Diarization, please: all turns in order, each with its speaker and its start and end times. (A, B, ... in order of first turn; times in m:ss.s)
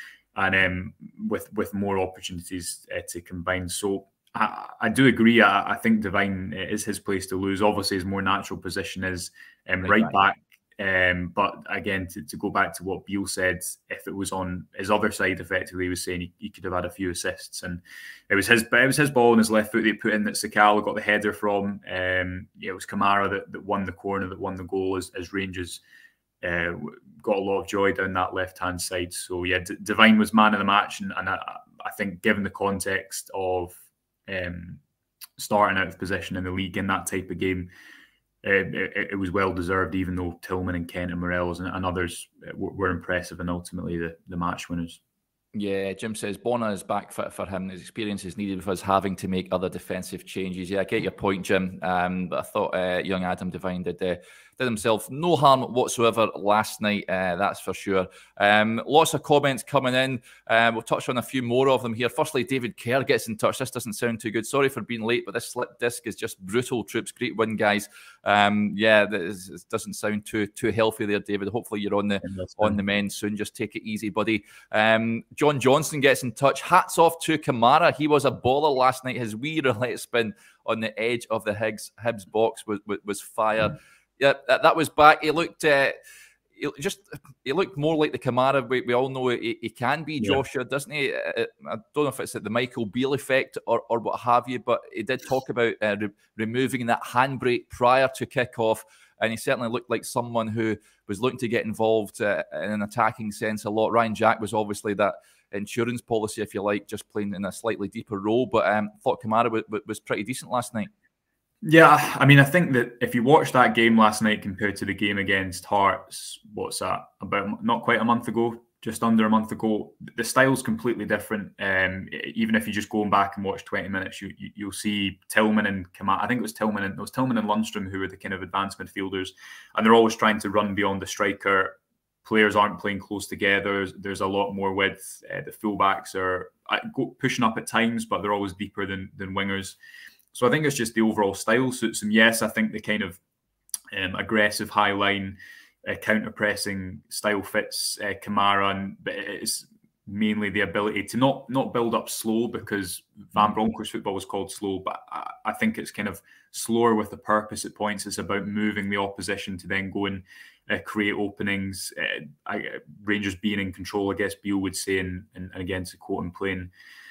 0:00.4-0:25.8 A
0:09.8-0:10.2 B
0:26.4-0:34.8 A
0:35.4-0:37.7 A
0:38.4-0:45.0 A
0:45.5-1:26.0 B
1:12.2-1:12.8 A
1:26.6-1:50.9 B
1:51.6-2:19.8 A
2:20.3-2:23.2 A
2:23.9-2:46.7 A